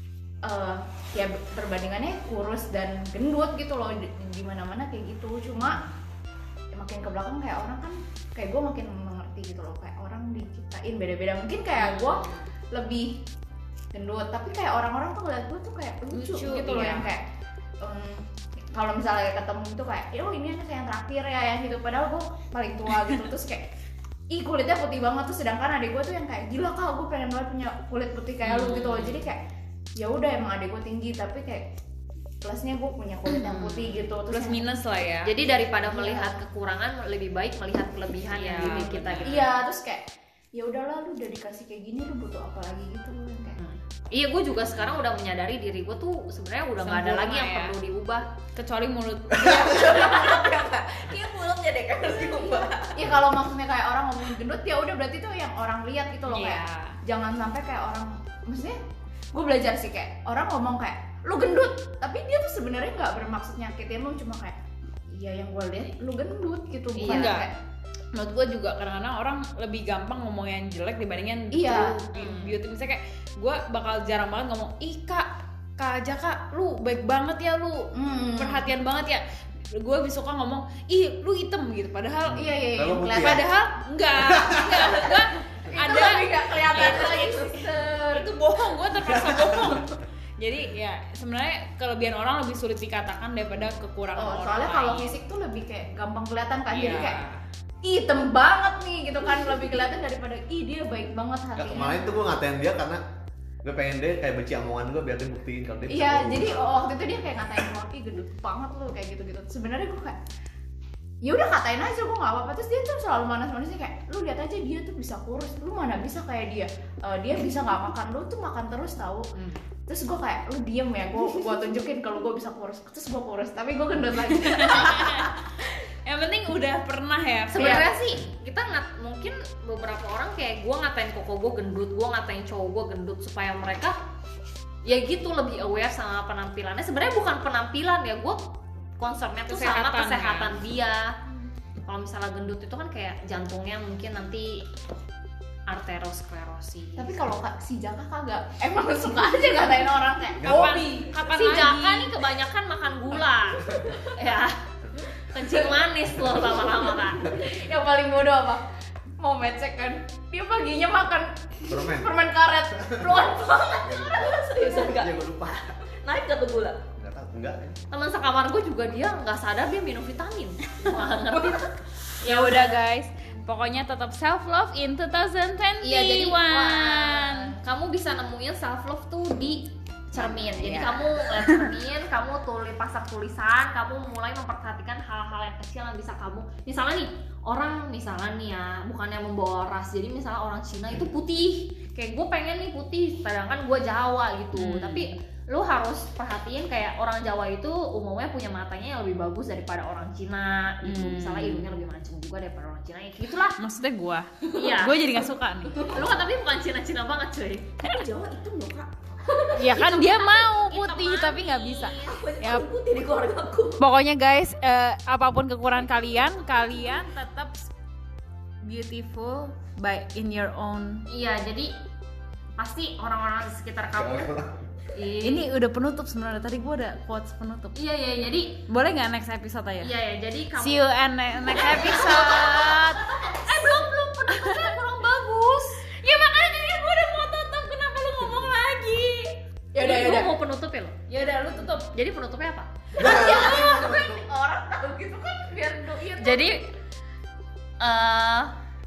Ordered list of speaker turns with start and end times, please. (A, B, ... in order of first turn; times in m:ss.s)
0:00.4-0:05.8 A
0:06.7-0:13.2 A
0:11.8-0:12.4 B
0:13.9-0:17.2 A
0:16.1-0:17.1 B
0:17.8-0:23.7 A
0:24.3-0:29.4 A
0:28.4-0:29.2 B
0:30.0-0:31.6 A
0:32.4-0:34.6 A
0:33.3-0:35.3 B
0:35.2-0:39.5 C
0:35.7-0:36.4 A
0:38.4-0:39.5 B
0:38.5-0:43.6 A
0:43.6-0:48.2 C
0:46.8-0:47.8 B
0:48.6-0:50.1 B
0:49.4-0:53.0 D
0:52.4-0:58.8 A
0:56.3-0:57.0 B
0:59.3-1:04.5 A
1:05.1-1:07.5 A
1:07.0-1:07.4 C
1:07.0-1:07.5 B
1:08.1-1:19.2 B
1:11.5-1:11.9 A
1:12.1-1:12.6 C
1:18.0-1:18.7 A
1:19.7-1:22.5 B
1:22.2-1:23.4 E
1:22.3-1:23.4 A
1:23.1-1:35.2 B
1:24.2-1:25.0 E
1:24.8-1:25.1 A
1:25.7-1:28.3 A
1:26.7-1:27.3 D
1:29.0-1:29.8 E
1:34.2-1:37.2 A
1:36.7-1:37.4 B
1:37.8-1:42.0 A
1:41.5-1:43.0 E
1:43.6-1:46.8 E
1:45.9-1:50.2 A
1:51.2-1:59.3 A
1:59.3-1:59.6 C
1:59.9-2:05.3 A
2:04.3-2:07.8 B
2:07.5-2:13.9 C
2:07.6-2:07.9 A
2:14.8-2:18.4 C
2:19.0-2:21.1 C
2:19.5-2:20.6 B
2:21.8-2:24.6 C
2:25.7-2:27.1 C
2:27.0-2:31.1 A
2:30.4-2:30.8 E
2:30.4-2:32.1 B
2:31.1-2:34.5 C
2:35.2-2:37.3 C
2:37.2-2:38.6 A
2:39.2-2:44.9 A
2:41.7-2:42.2 E
2:42.8-2:43.0 E
2:43.2-2:45.3 D
2:43.8-2:44.2 E
2:44.9-2:45.7 E
2:45.8-2:46.8 D
2:46.9-2:47.8 E
2:47.9-2:52.8 C
2:52.2-2:57.5 B
2:55.8-3:23.6 C
3:00.1-3:01.7 B
3:14.6-3:15.2 B
3:20.8-3:21.7 B
3:23.6-3:25.9 B
3:24.5-3:25.0 C
3:25.8-3:26.0 D
3:25.8-3:27.7 C
3:27.8-3:29.9 D
3:29.5-3:32.2 C
3:29.5-3:32.7 B
3:32.0-3:33.8 D
3:33.8-3:37.7 B
3:38.6-3:41.0 B
3:41.1-3:41.7 C
3:42.6-3:44.3 C
3:43.9-3:44.5 E
3:44.9-3:45.5 C
3:45.2-3:47.8 B
3:47.7-3:48.6 C
3:48.7-3:49.9 B
3:49.8-3:50.8 C
3:50.6-3:53.1 B
3:51.4-3:55.8 C
3:54.3-3:54.7 B
3:56.0-3:59.4 B
3:59.7-4:00.4 A
3:59.8-4:01.0 C
4:01.1-4:01.9 B
4:01.9-4:02.7 C
4:03.0-4:06.6 A
4:03.0-4:04.2 E
4:06.2-4:06.6 C
4:07.8-4:08.5 C